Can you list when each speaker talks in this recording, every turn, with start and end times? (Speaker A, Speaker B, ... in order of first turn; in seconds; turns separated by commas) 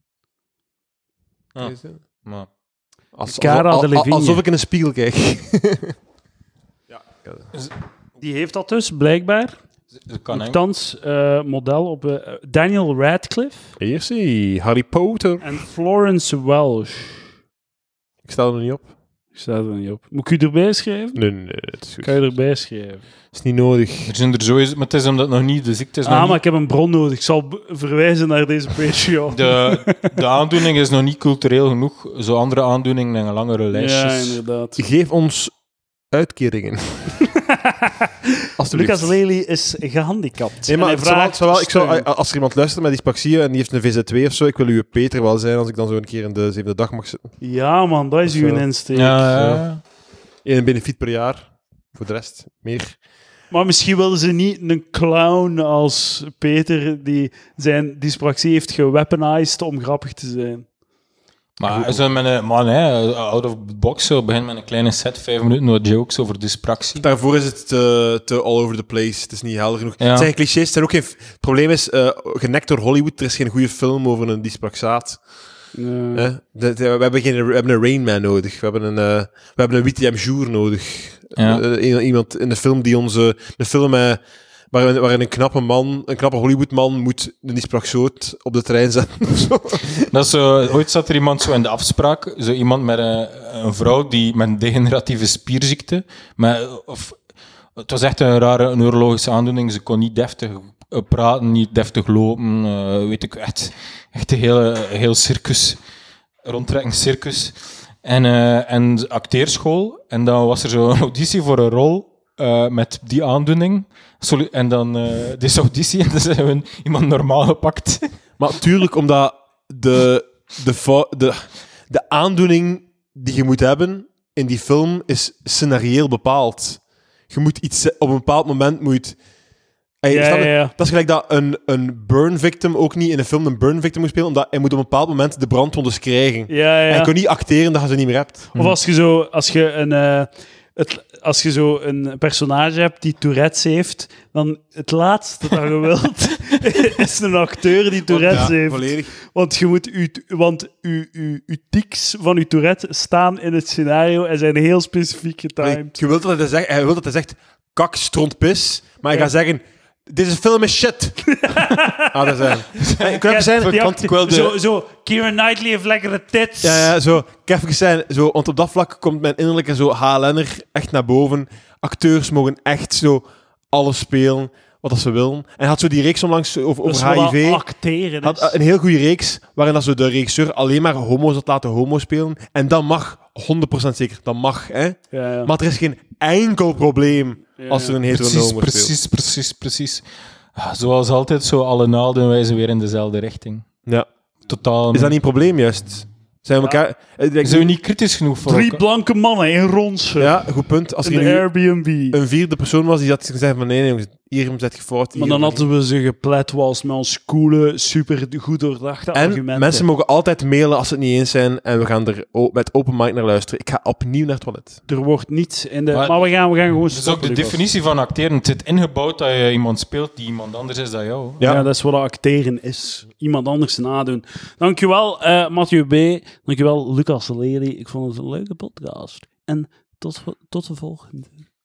Speaker A: 1.5-2.5, Speaker B: 1.6-2.0, Speaker B: 3.1-6.0, Speaker C: 3.3-4.4, Speaker B: 6.9-7.5, Speaker C: 8.2-9.5, Speaker A: 10.0-10.6, Speaker C: 10.3-13.7, Speaker B: 13.8-15.4, Speaker C: 15.4-17.2, Speaker B: 18.2-18.8, Speaker C: 19.3-21.2, Speaker B: 21.1-22.1, Speaker C: 22.0-23.0, Speaker B: 23.3-24.1, Speaker A: 24.1-26.4, Speaker C: 26.0-30.0, Speaker A: 29.3-34.4, Speaker C: 33.7-34.8, Speaker B: 34.8-35.5, Speaker B: 36.1-37.2, Speaker C: 37.3-38.1, Speaker B: 38.6-39.1, Speaker C: 38.7-42.0, Speaker B: 40.6-47.3, Speaker C: 47.4-49.6, Speaker B: 48.2-48.6, Speaker A: 48.9-49.8, Speaker B: 50.4-52.9, Speaker C: 53.5-60.7, Speaker A: 61.6-67.0, Speaker B: 61.6-62.0, Speaker B: 67.0-75.2, Speaker A: 70.0-70.3, Speaker C: 75.7-76.3, Speaker B: 76.1-84.2, Speaker A: 81.4-81.6, Speaker B: 84.7-90.1, Speaker A: 90.1-97.2, Speaker A: 97.8-105.8, Speaker A: 106.4-118.1, Speaker B: 118.4-129.2, Speaker B: 130.0-138.5, Speaker C: 130.1-130.7, Speaker C: 136.5-137.1, Speaker C: 138.5-156.0, Speaker B: 148.1-149.1, Speaker B: 155.6-161.3, Speaker C: 161.3-166.9, Speaker B: 162.0-164.5, Speaker A: 162.8-163.1, Speaker B: 166.6-177.6, Speaker C: 176.8-178.6, Speaker B: 178.2-188.9, Speaker C: 185.1-185.5, Speaker C: 187.6-188.0, Speaker A: 188.1-190.0, Speaker A: 190.5-193.7, Speaker A: 194.5-195.2, Speaker B: 194.9-197.7, Speaker A: 197.4-198.8, Speaker C: 198.4-200.4, Speaker B: 200.2-201.4, Speaker C: 201.0-202.2, Speaker B: 202.1-205.7, Speaker C: 205.1-209.8, Speaker B: 209.1-214.8, Speaker C: 214.9-217.6, Speaker A: 215.9-216.3, Speaker A: 216.8-221.6, Speaker C: 221.4-231.4